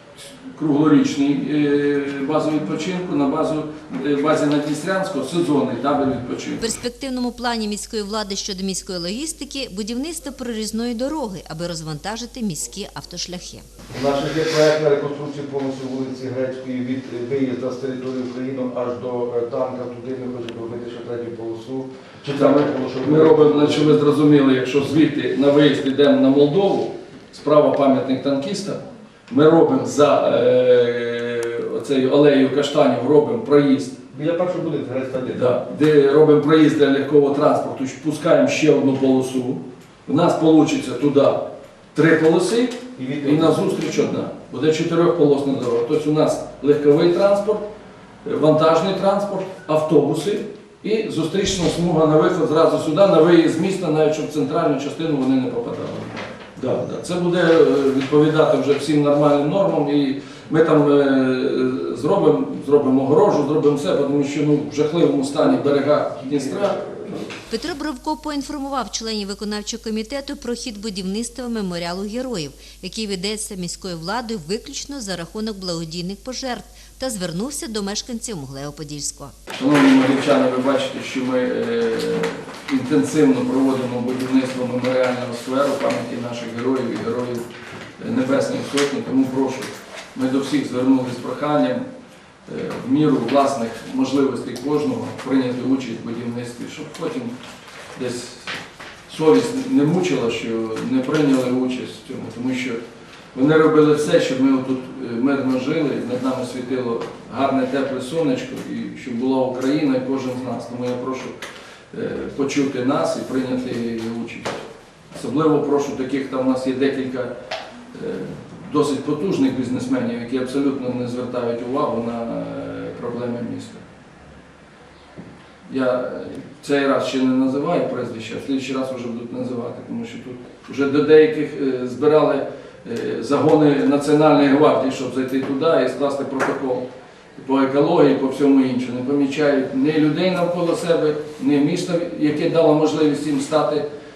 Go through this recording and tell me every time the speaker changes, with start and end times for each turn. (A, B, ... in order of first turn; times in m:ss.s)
0:00.5-0:06.6 A
0:06.6-0:13.6 B
0:13.9-0:24.0 C
0:22.3-0:34.0 A
0:34.1-0:35.6 C
0:35.3-0:47.6 A
0:43.0-0:43.7 C
0:48.2-1:06.8 A
1:07.5-1:19.3 B
1:19.6-1:27.4 A
1:28.0-1:31.8 A
1:32.5-1:37.3 A
1:37.9-1:38.6 A
1:39.1-1:42.8 A
1:43.3-1:51.3 A
1:51.9-1:57.3 A
1:57.9-2:03.8 A
2:05.7-2:23.8 A